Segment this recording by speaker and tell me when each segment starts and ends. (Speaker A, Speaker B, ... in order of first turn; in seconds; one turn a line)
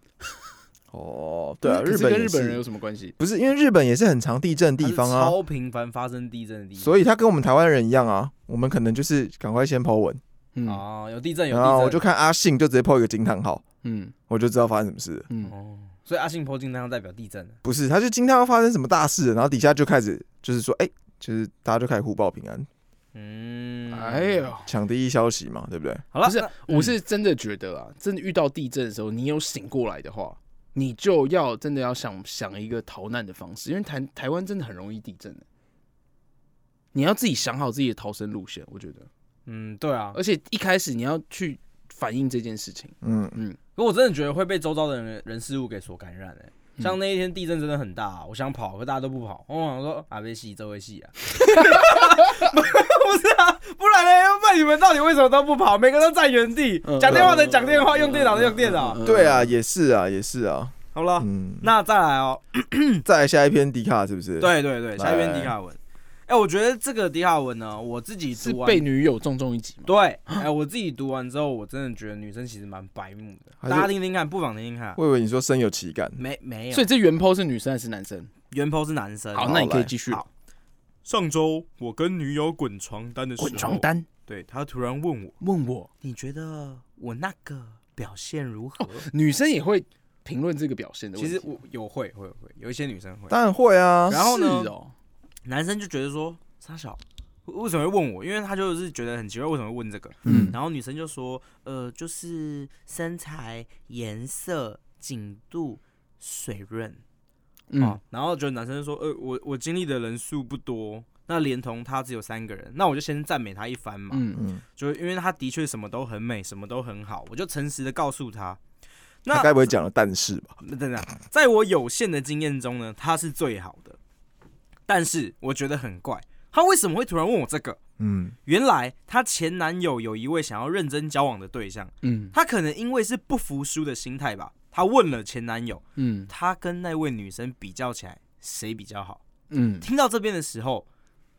Speaker A: 0.9-2.6
Speaker B: 1.6-3.1
Speaker A: 3.2-5.3
Speaker C: 4.8-6.9
Speaker A: 6.8-10.2
Speaker B: 10.5-10.8
Speaker C: 10.7-12.0
Speaker A: 11.5-13.6
Speaker B: 13.8-14.1
Speaker A: 14.3-15.2
Speaker C: 15.4-17.6
Speaker A: 17.6-22.7
Speaker C: 23.1-24.4
Speaker B: 23.9-24.7
Speaker A: 24.6-26.0
Speaker C: 26.1-26.9
Speaker B: 26.2-35.4
Speaker B: 36.9-39.1
Speaker C: 39.5-40.2
Speaker B: 40.1-43.6
Speaker A: 43.0-43.4
Speaker C: 43.7-59.0
Speaker B: 56.8-59.5
Speaker A: 59.0-61.7
Speaker C: 60.9-63.0
Speaker A: 63.0-65.5
Speaker C: 64.4-68.8
Speaker B: 68.4-70.4
Speaker C: 69.8-75.0
Speaker A: 73.6-73.9
Speaker A: 75.0-76.2
Speaker C: 76.2-76.9
Speaker B: 76.7-78.3
Speaker C: 78.5-80.3
Speaker B: 79.3-80.2
Speaker A: 79.4-79.9
Speaker C: 81.0-85.4
Speaker B: 83.4-84.1
Speaker B: 85.4-85.9
Speaker C: 86.0-89.0
Speaker B: 88.8-91.5
Speaker C: 91.2-93.4
Speaker A: 93.3-94.2
Speaker B: 94.1-94.9
Speaker C: 94.1-94.7
Speaker C: 95.4-107.0
Speaker A: 100.2-100.5
Speaker B: 100.2-100.5
Speaker B: 107.7-108.0
Speaker C: 107.8-118.6
Speaker B: 114.1-114.4
Speaker A: 114.3-114.6
Speaker C: 119.2-119.5
Speaker A: 119.3-120.5
Speaker C: 120.6-124.0
Speaker C: 124.9-127.8
Speaker A: 128.0-128.3
Speaker C: 128.4-139.2
Speaker B: 132.0-132.3
Speaker B: 136.0-136.3
Speaker B: 139.5-139.8
Speaker C: 139.8-140.8